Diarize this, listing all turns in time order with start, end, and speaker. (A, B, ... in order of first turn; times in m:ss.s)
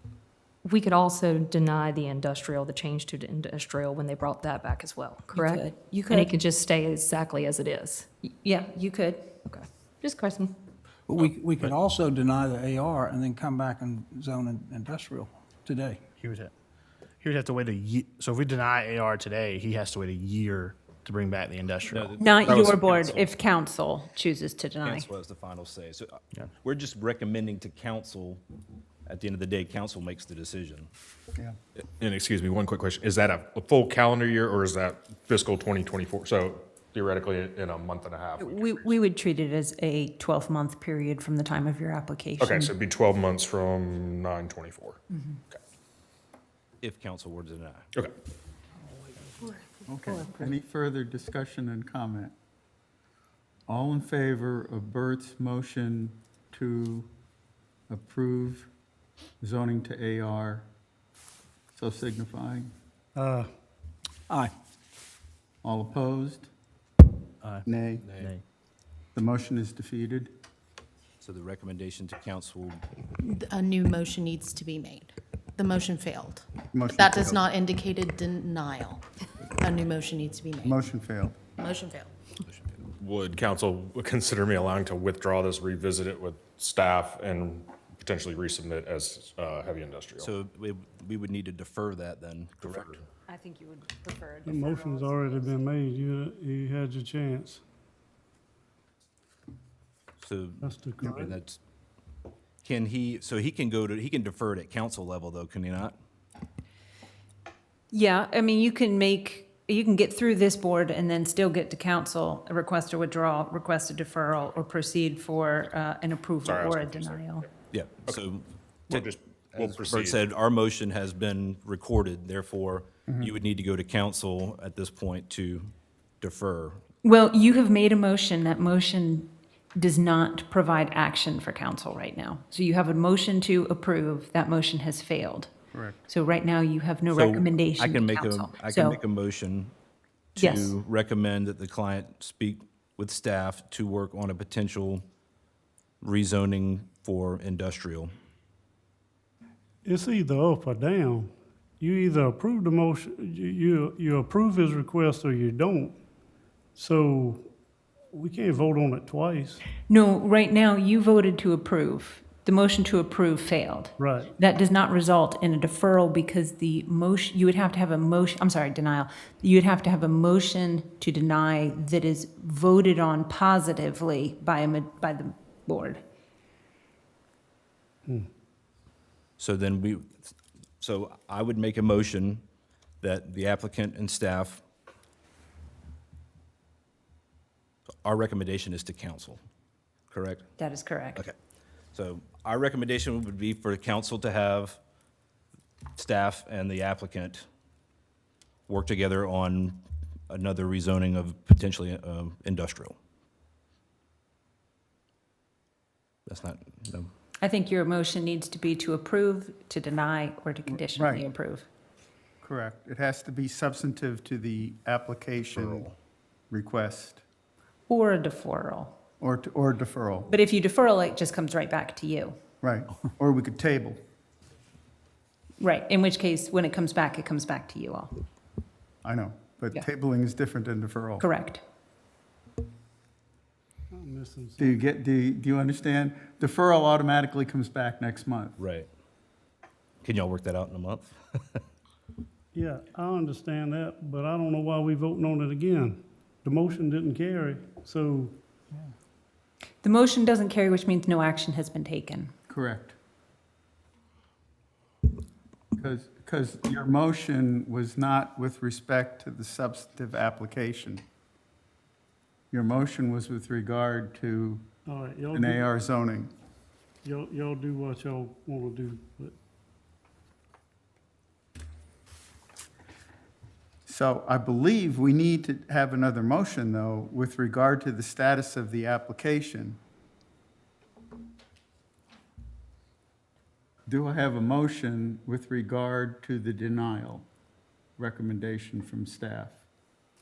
0:00.6-0:08.1 A
0:05.3-0:06.3 B
0:08.4-0:09.3 B
0:09.4-0:10.5 A
0:11.0-0:16.0 C
0:16.2-0:16.5 D
0:17.2-0:22.3 D
0:21.9-0:23.3 E
0:22.2-0:25.1 B
0:24.8-0:28.4 E
0:29.0-0:30.9 E
0:32.0-0:39.0 F
0:38.4-0:42.7 B
0:42.4-0:45.0 F
0:46.8-0:47.9 E
0:48.8-0:49.5 C
0:49.9-0:52.3 G
0:53.7-0:57.1 G
0:57.9-0:58.7 G
0:59.4-1:00.7 G
1:01.8-1:02.7 G
1:03.2-1:03.5 H
1:05.6-1:06.5 G
1:07.6-1:08.2 G
1:08.0-1:08.3 E
1:09.2-1:10.3 G
1:11.2-1:12.8 E
1:13.2-1:19.0 I
1:16.7-1:17.4 G
1:19.6-1:20.8 I
1:20.6-1:21.4 G
1:21.6-1:22.1 I
1:23.0-1:30.3 F
1:30.2-1:33.0 E
1:33.3-1:35.6 B
1:34.4-1:37.6 H
1:40.2-1:41.6 E
1:40.6-1:41.3 H
1:42.6-1:45.9 E
1:47.9-1:57.5 B
1:56.4-1:57.3 F
1:57.7-2:06.8 E
1:58.9-2:00.2 F
2:07.0-2:15.5 B
2:15.7-2:16.0 G
2:16.1-2:19.0 B
2:17.1-2:19.7 E
2:20.3-2:25.0 E
2:20.4-2:20.8 B
2:26.0-2:28.1 E
2:29.8-2:36.0 H
2:36.8-2:37.5 H
2:38.1-2:39.6 H
2:39.9-2:56.0 B
2:44.0-2:44.3 H
2:59.4-3:00.1 E
3:00.8-3:02.4 E
3:03.0-3:04.6 E
3:08.0-3:09.4 E
3:10.1-3:10.4 E
3:10.6-3:11.2 B
3:11.9-3:14.8 E
3:16.0-3:17.4 E
3:18.7-3:22.9 E
3:26.3-3:27.1 E
3:27.4-3:31.7 B
3:30.7-3:31.3 G
3:32.4-3:35.9 G
3:36.5-3:37.2 G
3:37.9-3:39.0 B
3:39.2-3:40.3 G
3:40.3-3:42.4 B
3:42.6-3:44.0 G
3:45.6-3:48.1 B
3:49.0-3:51.2 G
3:51.2-3:51.6 B
3:53.9-3:54.8 H
3:54.6-3:58.6 G
3:58.6-3:58.9 E
4:00.0-4:01.6 E
4:02.5-4:08.4 H
4:09.8-4:12.3 B
4:12.5-4:13.0 G
4:15.8-4:21.0 G
4:22.5-4:24.7 G
4:24.8-4:25.7 H
4:25.3-4:26.3 G
4:27.0-4:29.3 H
4:33.9-4:39.8 G
4:43.8-4:47.3 G
4:48.0-4:49.6 G